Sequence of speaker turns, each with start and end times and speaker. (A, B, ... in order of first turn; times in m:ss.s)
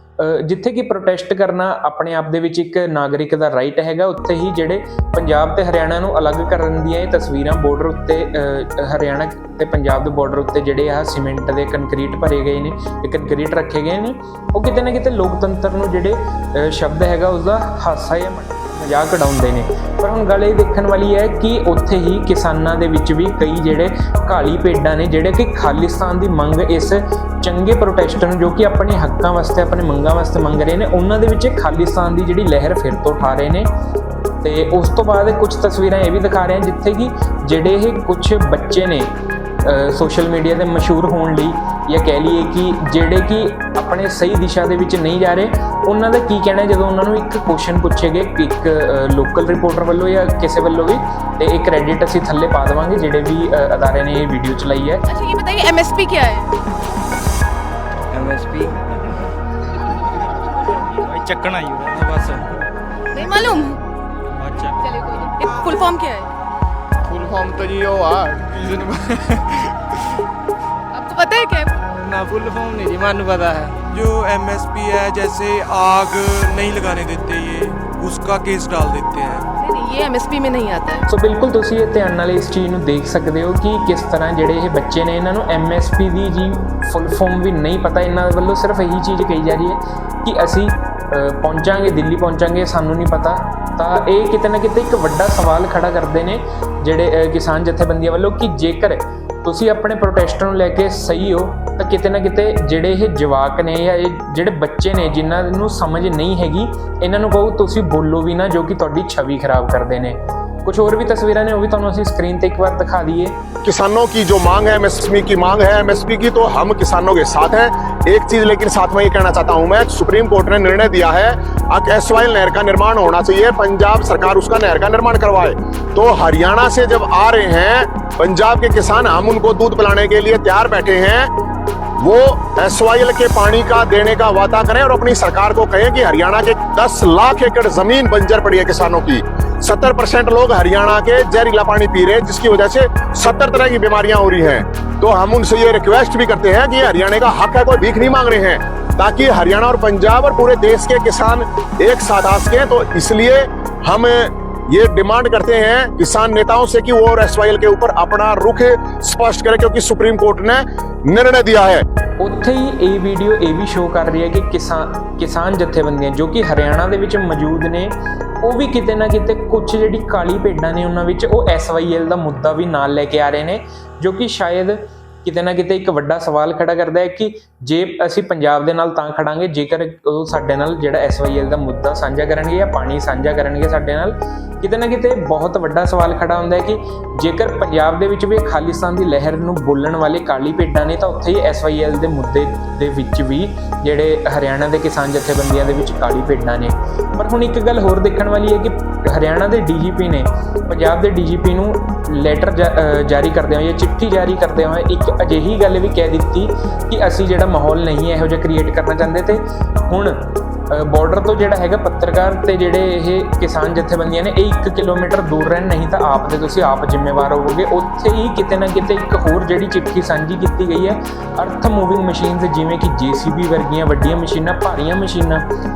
0:00.2-0:33.7 A
0:34.4-0:39.1 A
0:39.6-0:55.0 A
0:55.1-0:56.5 B
0:58.1-0:58.7 C
1:01.0-1:02.4 C
1:03.1-1:03.8 B
1:04.4-1:04.7 C
1:04.8-1:06.3 B
1:07.0-1:09.7 D
1:10.9-1:11.8 B
1:12.0-1:13.8 D
1:13.9-1:19.4 E
1:19.6-1:21.0 B
1:21.1-1:53.3 A
1:53.6-2:11.3 F
2:12.0-2:41.8 F
2:42.2-3:30.2 A
3:30.7-3:45.4 A